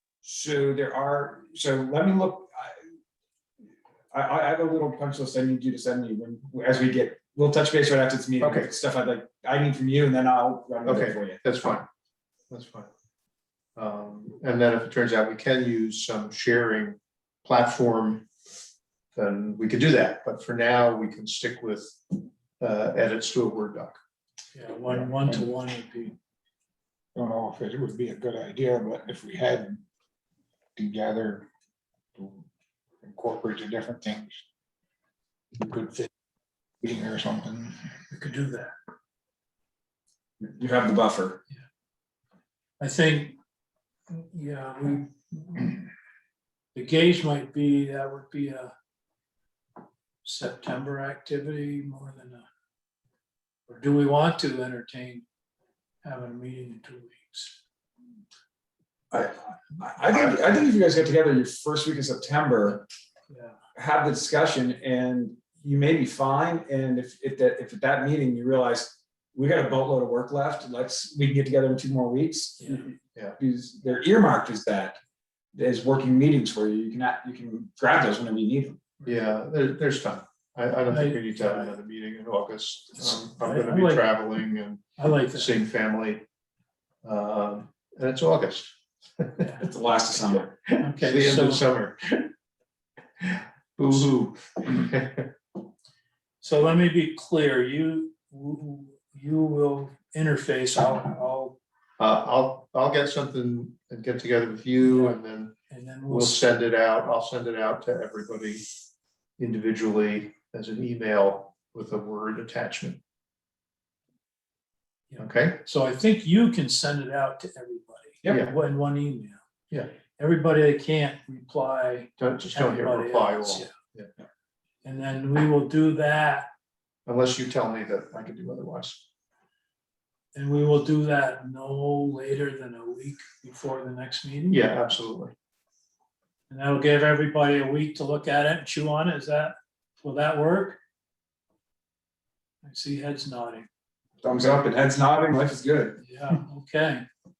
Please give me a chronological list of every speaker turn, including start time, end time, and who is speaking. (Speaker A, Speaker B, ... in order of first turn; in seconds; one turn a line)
Speaker A: 0.2-2.7
Speaker A: 4.1-11.4
Speaker B: 8.4-8.7
Speaker B: 10.8-11.9
Speaker B: 12.5-12.9
Speaker B: 13.8-18.3
Speaker B: 19.1-24.0
Speaker C: 24.5-26.1
Speaker B: 24.9-25.2
Speaker D: 27.1-29.8
Speaker D: 30.8-31.5
Speaker D: 32.2-32.4
Speaker D: 33.0-34.4
Speaker D: 35.5-36.1
Speaker D: 36.8-37.9
Speaker C: 38.1-38.7
Speaker A: 40.4-41.4
Speaker C: 42.8-43.4
Speaker C: 44.1-45.8
Speaker C: 46.7-48.7
Speaker C: 50.2-52.4
Speaker C: 53.7-55.2
Speaker C: 56.0-57.5
Speaker A: 59.1-62.9
Speaker A: 63.7-75.0
Speaker A: 75.5-78.8
Speaker B: 79.0-86.2
Speaker C: 80.9-81.7
Speaker C: 83.0-84.2
Speaker C: 85.0-85.6
Speaker B: 87.0-89.5
Speaker A: 89.6-90.5
Speaker B: 90.5-92.3
Speaker C: 90.8-91.6
Speaker B: 93.2-95.3
Speaker C: 96.4-101.6
Speaker B: 102.0-105.5
Speaker C: 104.8-105.2
Speaker C: 105.7-106.4
Speaker B: 106.1-108.6
Speaker B: 109.4-113.0
Speaker C: 115.1-119.4
Speaker B: 115.2-115.6
Speaker B: 118.3-118.5
Speaker C: 120.2-123.7
Speaker B: 122.2-124.1
Speaker C: 124.8-126.5
Speaker B: 127.1-129.0
Speaker C: 130.3-134.7
Speaker B: 134.5-135.3
Speaker C: 136.5-140.8
Speaker C: 142.6-143.7
Speaker A: 144.2-146.0
Speaker C: 146.0-147.0